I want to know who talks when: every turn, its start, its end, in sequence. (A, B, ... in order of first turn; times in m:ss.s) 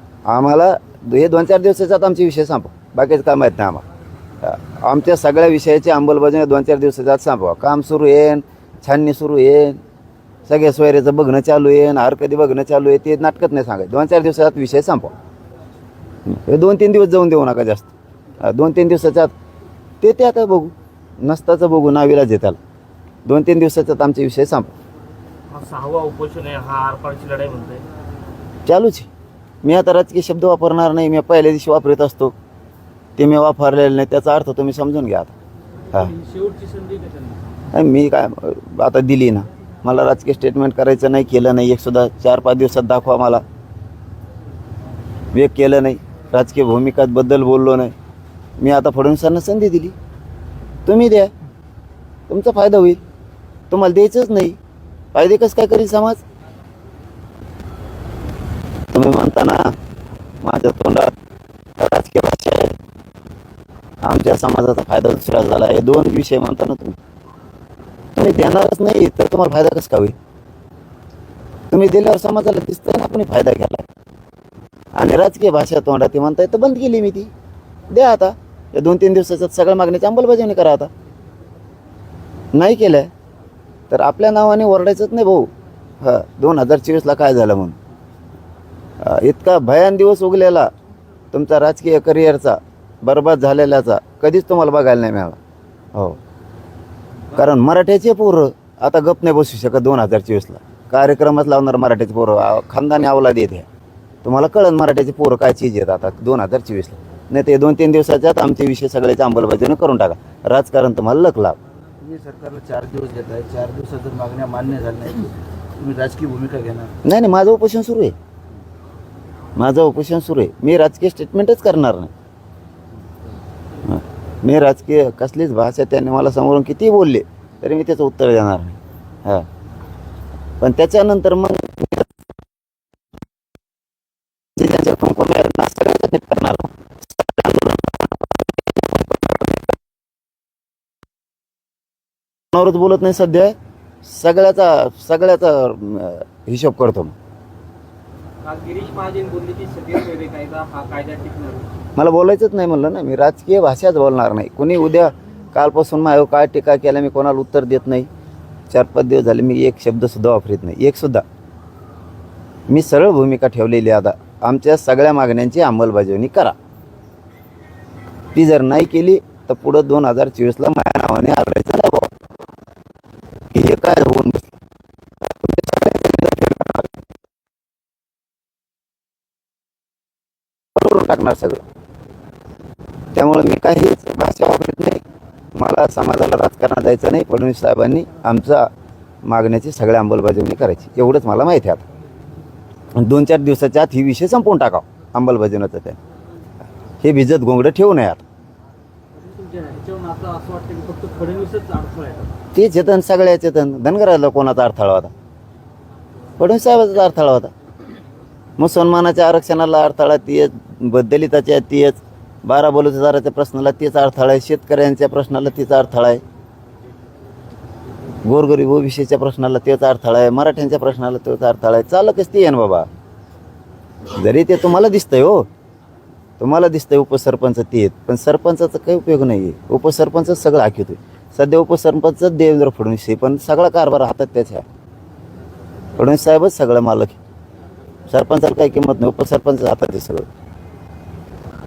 0:00.3-0:03.8 A
0:04.4-0:09.8 A
0:10.5-0:15.1 A
0:16.3-0:19.3 A
0:20.0-0:22.6 A
0:23.3-0:24.7 A
0:25.5-0:27.8 B
0:28.7-0:29.1 A
0:29.6-0:32.3 A
0:33.2-0:35.3 A
0:36.0-0:37.4 C
0:37.7-0:43.4 A
0:45.3-0:47.9 A
0:48.6-0:50.0 A
0:50.9-0:51.3 A
0:52.3-0:53.0 A
0:53.7-0:54.6 A
0:55.1-0:56.2 A
0:58.9-0:59.8 A
1:00.4-1:01.2 A
1:01.8-1:02.8 A
1:04.0-1:07.0 A
1:08.2-1:10.2 A
1:11.7-1:13.8 A
1:15.0-1:17.3 A
1:17.9-1:20.9 A
1:22.6-1:23.1 A
1:23.9-1:27.8 A
1:29.0-1:30.7 A
1:31.3-1:35.4 A
1:37.3-1:43.7 A
1:44.2-1:51.6 A
1:52.0-1:56.9 D
1:57.0-1:58.2 A
1:59.6-2:02.1 A
2:03.8-2:09.5 A
2:10.6-2:12.1 A
2:14.6-2:19.5 A
2:22.5-2:27.2 A
2:28.4-2:31.7 C
2:32.0-2:38.1 A
2:38.7-2:41.2 A
2:42.7-2:46.6 A
2:48.3-2:52.1 A
2:53.5-2:54.5 A
2:55.3-2:57.0 A
3:00.8-3:01.6 A
3:03.2-3:05.0 A
3:05.6-3:08.7 A
3:09.2-3:11.8 A
3:13.0-3:16.0 A
3:17.0-3:18.2 A
3:19.2-3:22.3 C
3:22.5-3:25.1 A
3:26.4-3:27.5 A
3:28.6-3:36.2 A
3:38.3-3:42.9 A
3:44.2-3:45.5 A
3:46.4-3:54.6 A
3:56.0-3:57.2 A
3:58.1-4:00.3 A